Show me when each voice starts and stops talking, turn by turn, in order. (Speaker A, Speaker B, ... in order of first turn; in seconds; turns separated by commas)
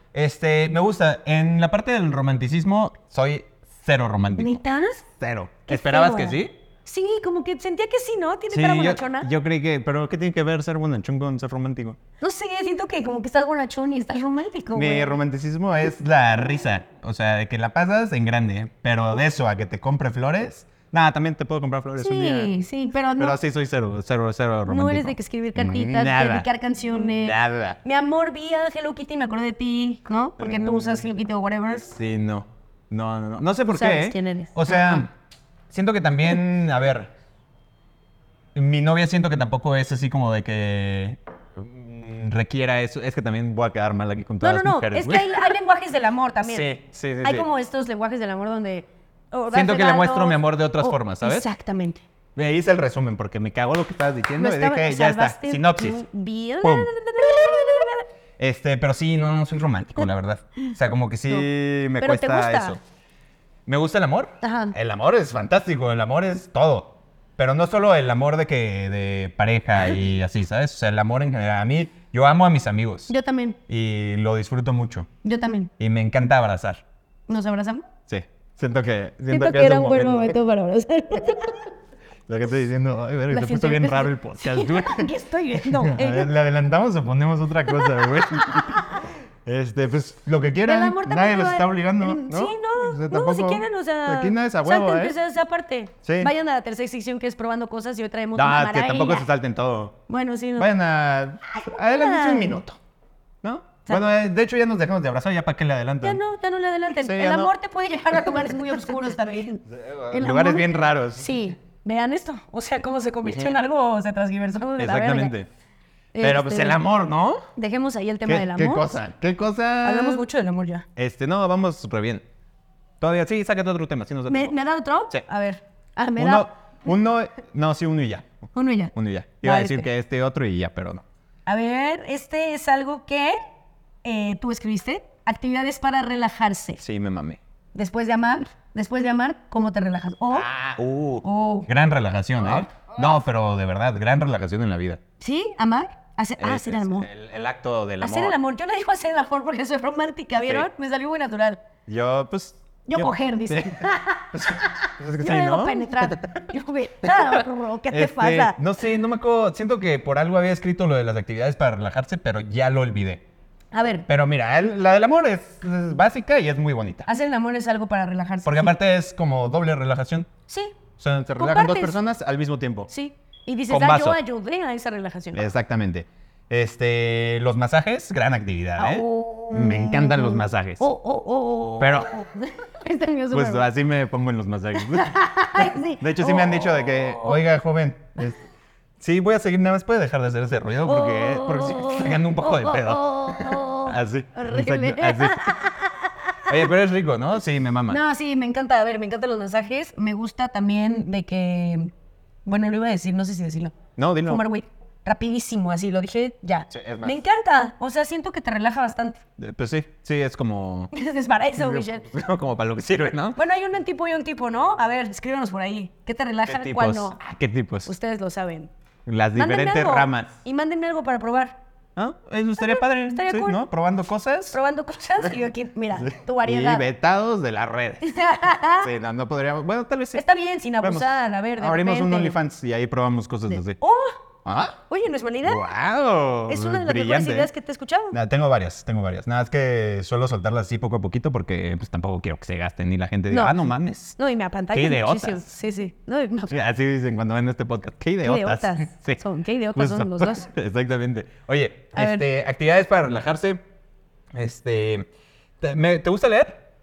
Speaker A: 0.1-4.6, Speaker B: 4.4-5.0, Speaker A: 5.2-6.5, Speaker B: 5.7-9.3, Speaker A: 8.5-12.0, Speaker B: 12.2-15.1, Speaker A: 14.7-22.5, Speaker B: 22.0-23.4, Speaker A: 23.2-26.5, Speaker B: 24.7-31.9, Speaker A: 27.2-27.8, Speaker A: 30.4-31.0, Speaker A: 31.9-35.1, Speaker B: 33.7-35.0, Speaker A: 35.7-37.1, Speaker A: 38.5-45.3, Speaker B: 44.4-46.7, Speaker A: 46.5-47.5, Speaker B: 47.2-52.0, Speaker A: 49.5-51.5, Speaker A: 52.4-56.0, Speaker B: 54.4-58.0, Speaker A: 56.6-57.8, Speaker A: 58.4-62.8, Speaker B: 62.0-62.8, Speaker A: 63.7-73.1, Speaker B: 64.4-64.8, Speaker B: 73.1-73.6, Speaker A: 73.7-75.1, Speaker B: 75.2-75.7, Speaker A: 75.8-76.8, Speaker B: 77.3-77.8, Speaker A: 78.1-80.3, Speaker B: 79.3-81.7, Speaker A: 82.3-85.1, Speaker B: 83.3-86.3, Speaker A: 85.7-95.2, Speaker B: 87.7-88.8, Speaker B: 90.6-99.3, Speaker A: 96.0-96.3, Speaker A: 98.3-100.0, Speaker B: 100.1-100.7, Speaker A: 100.6-102.8, Speaker B: 101.6-102.6, Speaker A: 103.4-106.2, Speaker B: 106.0-115.3, Speaker A: 107.0-107.5, Speaker A: 109.7-111.3, Speaker A: 114.8-115.5, Speaker B: 116.1-116.8, Speaker A: 116.2-117.5, Speaker B: 117.6-118.9, Speaker A: 118.2-120.2, Speaker B: 119.8-120.9, Speaker A: 121.0-122.2, Speaker A: 123.0-124.5, Speaker B: 124.3-126.5, Speaker A: 126.2-128.4, Speaker B: 128.6-129.9, Speaker A: 128.9-131.0, Speaker B: 131.5-133.4, Speaker B: 134.0-136.8, Speaker A: 136.8-137.4, Speaker B: 137.7-140.5, Speaker A: 140.3-145.0, Speaker B: 141.2-141.7, Speaker B: 145.2-147.1, Speaker A: 146.4-148.4, Speaker B: 148.0-151.6, Speaker A: 150.4-150.7, Speaker A: 151.9-156.5, Speaker B: 152.9-158.6, Speaker A: 157.9-163.2, Speaker B: 163.7-164.1, Speaker A: 164.1-167.1, Speaker B: 167.1-168.7, Speaker A: 168.4-170.3, Speaker B: 170.5-170.8, Speaker A: 171.0-172.9, Speaker B: 171.4-172.0, Speaker B: 172.9-175.5, Speaker A: 173.7-174.2, Speaker A: 175.3-180.9, Speaker B: 178.8-183.7, Speaker A: 181.8-182.1, Speaker A: 183.3-185.4, Speaker B: 184.8-187.4, Speaker A: 186.0-188.4, Speaker A: 189.0-195.6, Speaker B: 190.8-196.7, Speaker A: 196.4-198.0, Speaker B: 197.9-201.9, Speaker B: 202.4-209.2, Speaker A: 204.0-204.4, Speaker A: 206.7-207.2, Speaker A: 209.4-210.9, Speaker B: 210.9-212.1, Speaker A: 211.6-213.4, Speaker B: 213.4-217.2, Speaker A: 216.5-217.9, Speaker B: 217.9-218.7, Speaker A: 219.1-220.3, Speaker B: 219.3-221.6, Speaker A: 222.0-224.6, Speaker B: 222.6-223.6, Speaker B: 224.5-226.8, Speaker A: 226.0-228.1, Speaker B: 228.0-228.9, Speaker A: 228.8-230.2, Speaker B: 230.1-232.4, Speaker A: 230.8-233.8, Speaker B: 233.5-234.2, Speaker A: 234.4-234.8, Speaker B: 234.9-235.7, Speaker A: 235.4-237.5, Speaker B: 236.5-238.2, Speaker A: 238.1-244.2, Speaker B: 243.3-243.6, Speaker B: 244.2-246.6, Speaker A: 244.7-245.4, Speaker A: 246.5-249.2, Speaker B: 248.2-250.5, Speaker A: 249.8-253.6, Speaker B: 251.9-252.2, Speaker A: 254.3-255.1, Speaker A: 255.6-256.6